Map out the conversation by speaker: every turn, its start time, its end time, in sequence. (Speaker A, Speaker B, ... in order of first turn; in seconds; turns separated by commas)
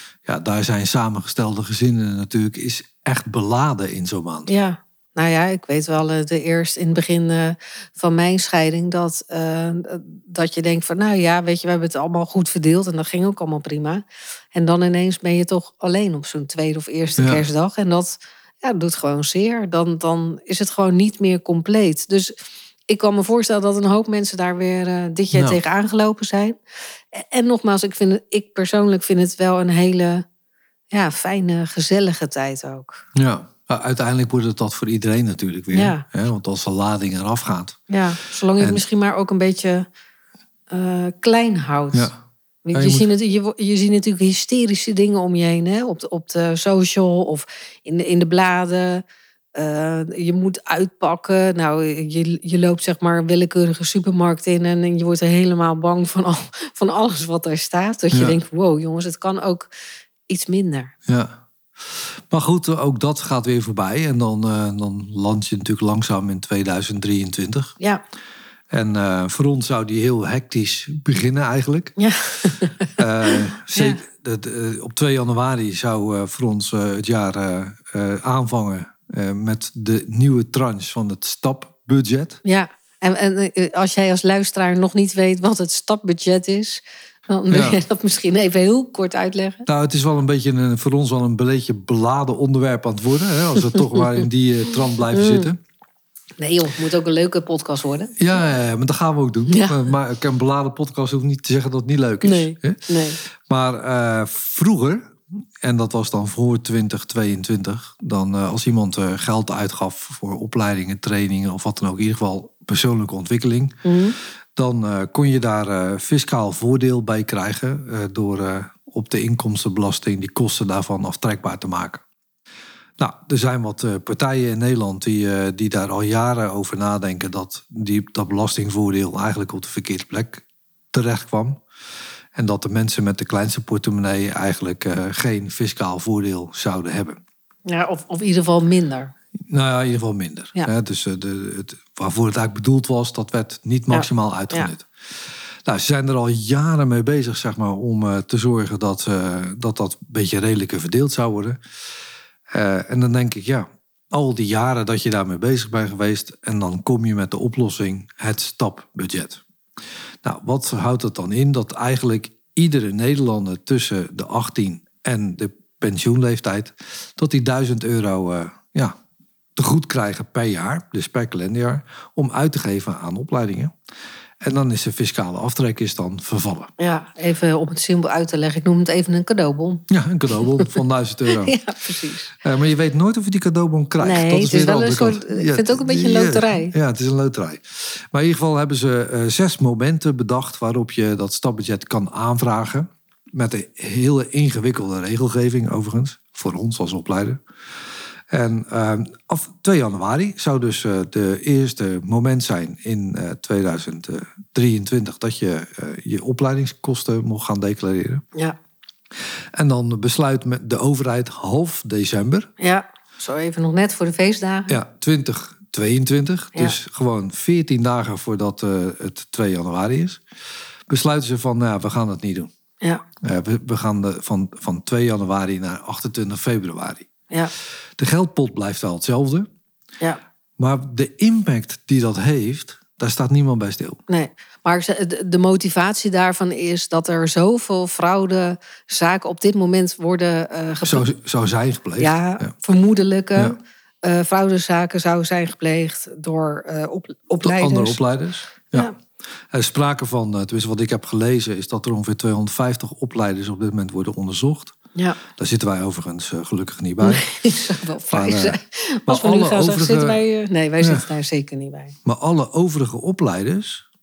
Speaker A: 0.2-4.5, Speaker B: 4.5-22.3, Speaker A: 17.2-17.5, Speaker B: 22.9-26.6, Speaker A: 25.3-25.6, Speaker B: 27.1-30.2, Speaker B: 30.9-33.0, Speaker A: 33.1-37.8, Speaker B: 35.7-36.0, Speaker B: 37.9-39.9, Speaker A: 38.6-38.8, Speaker B: 40.7-42.1, Speaker A: 41.9-42.2, Speaker B: 42.6-49.0, Speaker A: 42.7-43.1, Speaker B: 49.5-59.7, Speaker A: 58.1-58.4, Speaker B: 60.3-60.9, Speaker A: 61.1-67.7, Speaker A: 68.7-72.0, Speaker B: 72.0-74.0, Speaker A: 73.0-82.4, Speaker B: 82.4-89.7, Speaker A: 87.5-87.8, Speaker A: 89.7-95.6, Speaker B: 93.8-94.1, Speaker B: 95.1-95.5, Speaker B: 96.4-98.2, Speaker A: 98.2-113.8, Speaker B: 99.5-99.8, Speaker B: 102.2-103.2, Speaker B: 113.8-114.2, Speaker A: 114.6-122.0, Speaker A: 123.0-131.6, Speaker A: 132.3-137.2, Speaker B: 137.7-139.1, Speaker A: 139.5-144.9, Speaker B: 143.9-144.7, Speaker A: 145.7-151.6, Speaker A: 152.5-159.4, Speaker A: 160.2-169.0, Speaker A: 169.6-173.7, Speaker A: 174.4-176.7, Speaker B: 176.8-182.3, Speaker A: 179.9-181.6, Speaker A: 182.4-197.4, Speaker B: 184.0-186.7, Speaker A: 198.3-208.2, Speaker A: 209.5-212.5, Speaker B: 212.6-214.8, Speaker A: 214.7-220.2, Speaker A: 220.9-222.5, Speaker A: 223.2-227.1, Speaker A: 228.0-229.5, Speaker A: 230.6-234.0, Speaker B: 234.1-241.1, Speaker A: 240.8-242.5, Speaker B: 242.0-248.0, Speaker A: 247.4-248.9, Speaker A: 249.5-254.8, Speaker A: 255.3-257.3, Speaker B: 257.0-261.9, Speaker A: 258.1-260.2, Speaker A: 260.8-261.1, Speaker A: 262.1-263.8